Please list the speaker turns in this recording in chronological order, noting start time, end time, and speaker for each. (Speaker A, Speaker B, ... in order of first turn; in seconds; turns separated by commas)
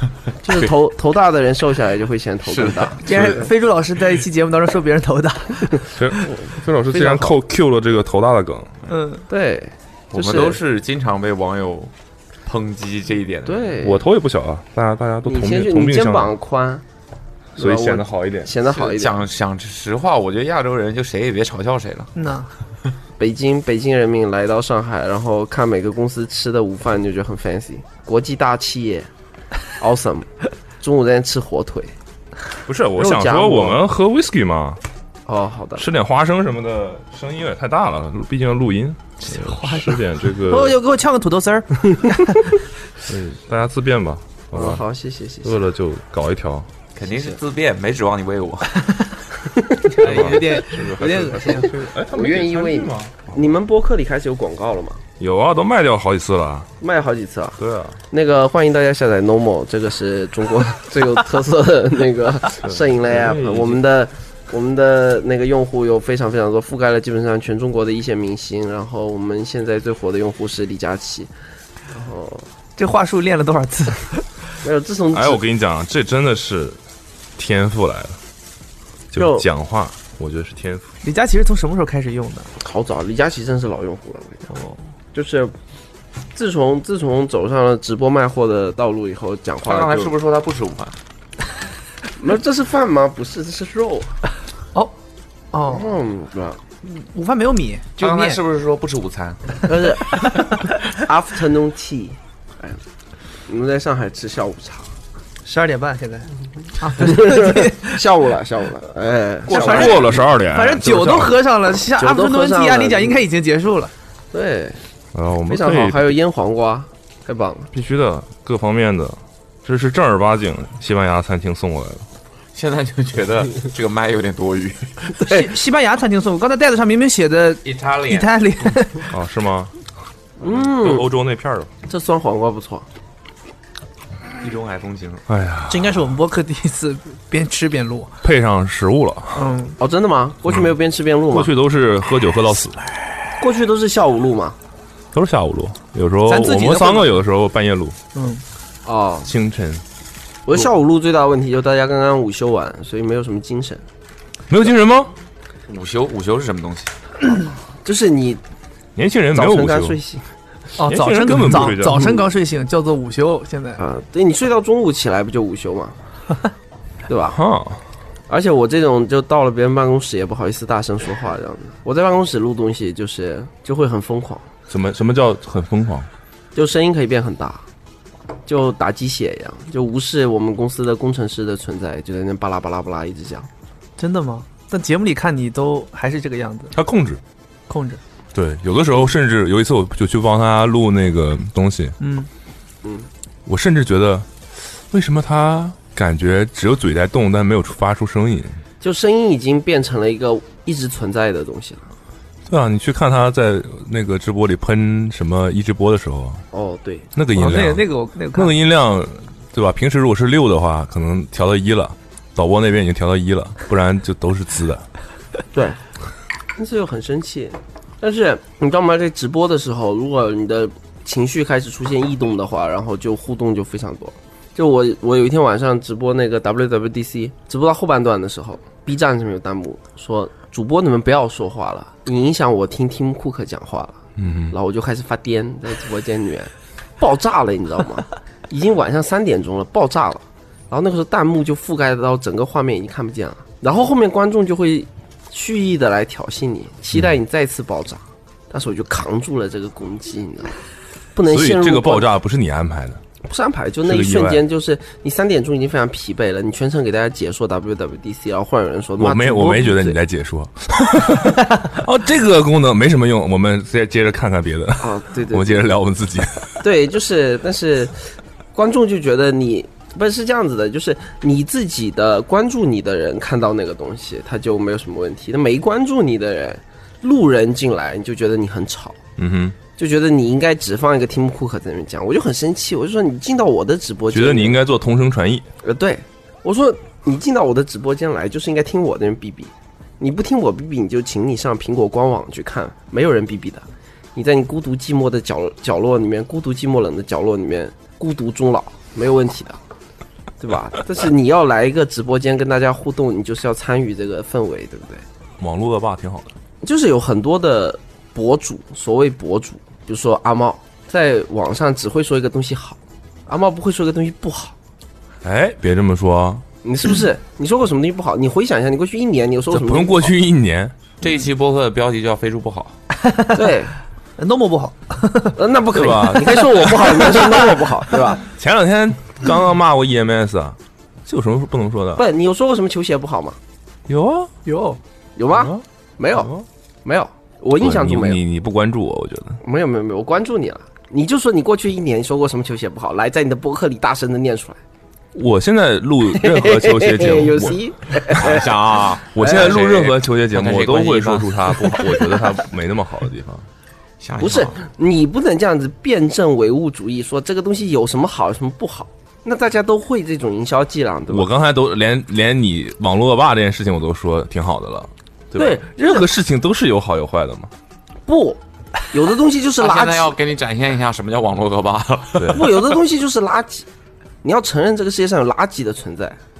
Speaker A: 0.4-3.4, Speaker B: 2.5-3.4, Speaker C: 3.0-6.2, Speaker D: 6.0-8.8, Speaker A: 6.2-7.4, Speaker C: 8.9-9.3, Speaker A: 9.3-10.6, Speaker B: 10.1-11.9, Speaker B: 12.5-13.7, Speaker A: 13.5-14.0, Speaker D: 13.8-16.3, Speaker A: 15.2-16.8, Speaker D: 17.6-18.5, Speaker A: 17.6-19.2, Speaker B: 18.6-22.1, Speaker C: 22.1-22.5, Speaker A: 23.2-29.1, Speaker A: 29.8-31.9, Speaker D: 32.6-34.8, Speaker A: 33.0-33.8, Speaker A: 35.3-35.9, Speaker D: 35.8-40.8, Speaker C: 39.3-42.5, Speaker D: 43.0-44.8, Speaker A: 44.5-45.6, Speaker D: 45.4-46.7, Speaker B: 47.0-49.0, Speaker A: 47.1-47.4, Speaker A: 49.5-50.0, Speaker C: 49.9-51.7, Speaker D: 50.0-53.2, Speaker B: 50.0-50.6, Speaker A: 51.4-55.0, Speaker D: 55.2-56.7, Speaker A: 56.8-57.6, Speaker D: 57.6-58.0, Speaker A: 58.1-71.3, Speaker D: 62.6-63.8, Speaker A: 71.9-72.5, Speaker C: 72.8-74.4, Speaker A: 74.6-75.4, Speaker D: 75.1-76.8, Speaker D: 77.4-78.2, Speaker D: 79.1-80.9, Speaker A: 79.1-79.5, Speaker C: 81.0-82.5, Speaker A: 82.6-84.5, Speaker C: 84.5-84.8, Speaker A: 85.1-85.5, Speaker A: 86.3-90.1, Speaker B: 89.7-91.0, Speaker A: 92.2-94.2, Speaker C: 95.5-95.9, Speaker A: 95.7-96.6, Speaker C: 96.8-98.4, Speaker B: 98.0-99.5, Speaker A: 99.6-100.3, Speaker A: 100.9-102.8, Speaker A: 103.5-104.9, Speaker C: 105.4-108.0, Speaker A: 106.9-110.2, Speaker C: 109.5-113.9, Speaker D: 109.5-111.4, Speaker A: 112.0-113.2, Speaker A: 114.3-114.8, Speaker D: 115.1-116.1, Speaker A: 115.5-117.7, Speaker D: 117.7-122.1, Speaker B: 122.5-125.0, Speaker C: 125.2-129.1, Speaker B: 127.7-128.3, Speaker D: 129.1-129.7, Speaker A: 130.4-131.1, Speaker D: 130.6-131.7, Speaker A: 131.9-132.9, Speaker B: 134.4-135.2, Speaker D: 135.3-136.1, Speaker C: 135.7-138.2, Speaker D: 138.2-139.5, Speaker C: 139.3-139.8, Speaker A: 139.8-141.5, Speaker D: 141.3-142.8, Speaker A: 143.4-144.6, Speaker D: 145.1-148.0, Speaker C: 146.3-147.2, Speaker C: 148.2-148.4, Speaker A: 148.8-149.3, Speaker D: 149.3-149.8, Speaker A: 150.5-153.8, Speaker D: 154.5-155.1, Speaker B: 155.7-156.9, Speaker A: 157.8-158.4, Speaker D: 159.0-160.0, Speaker A: 159.3-160.3, Speaker C: 160.8-163.8, Speaker D: 160.9-162.2, Speaker A: 163.8-166.0, Speaker A: 167.1-167.4, Speaker D: 167.3-167.8, Speaker A: 168.3-174.5, Speaker D: 174.7-176.1, Speaker A: 176.6-177.6, Speaker A: 178.5-183.5, Speaker C: 184.0-186.7, Speaker D: 186.7-187.2, Speaker C: 187.7-188.0, Speaker D: 188.3-192.0, Speaker C: 192.0-192.3, Speaker D: 193.5-198.6, Speaker A: 198.8-201.9, Speaker D: 202.5-206.4, Speaker A: 206.5-207.1, Speaker D: 207.2-214.9, Speaker C: 207.3-208.6, Speaker A: 215.5-215.8, Speaker A: 216.6-234.0, Speaker D: 234.2-234.6, Speaker A: 234.5-250.6, Speaker A: 251.2-252.1, Speaker D: 251.3-253.0, Speaker A: 253.2-260.0, Speaker D: 253.8-254.4, Speaker D: 259.0-266.6, Speaker A: 264.8-265.8, Speaker A: 266.6-279.0, Speaker D: 279.2-279.6, Speaker A: 279.8-284.6, Speaker D: 284.1-285.5, Speaker A: 285.6-299.6, Speaker A: 300.4-305.1, Speaker D: 305.4-306.3, Speaker A: 306.6-314.6, Speaker D: 315.2-316.4, Speaker A: 316.6-320.1, Speaker D: 319.5-320.8, Speaker B: 321.0-322.8, Speaker C: 323.0-323.3, Speaker A: 323.3-323.7, Speaker C: 324.2-325.3, Speaker A: 325.3-328.3, Speaker D: 325.7-327.4, Speaker D: 328.2-332.0, Speaker A: 332.0-333.4, Speaker D: 333.9-334.3, Speaker C: 334.5-334.8, Speaker A: 335.2-336.3, Speaker D: 335.3-335.6, Speaker D: 336.1-336.4, Speaker A: 336.9-338.2, Speaker D: 337.6-339.4, Speaker A: 339.4-344.6, Speaker D: 345.1-347.6, Speaker A: 346.1-349.6, Speaker B: 348.1-352.2, Speaker D: 349.1-353.5, Speaker B: 354.0-354.6, Speaker A: 354.2-361.3, Speaker D: 361.1-367.5, Speaker A: 365.4-366.1, Speaker A: 368.1-370.1, Speaker B: 369.6-372.5, Speaker D: 372.2-372.5, Speaker A: 372.3-373.7, Speaker A: 374.2-376.2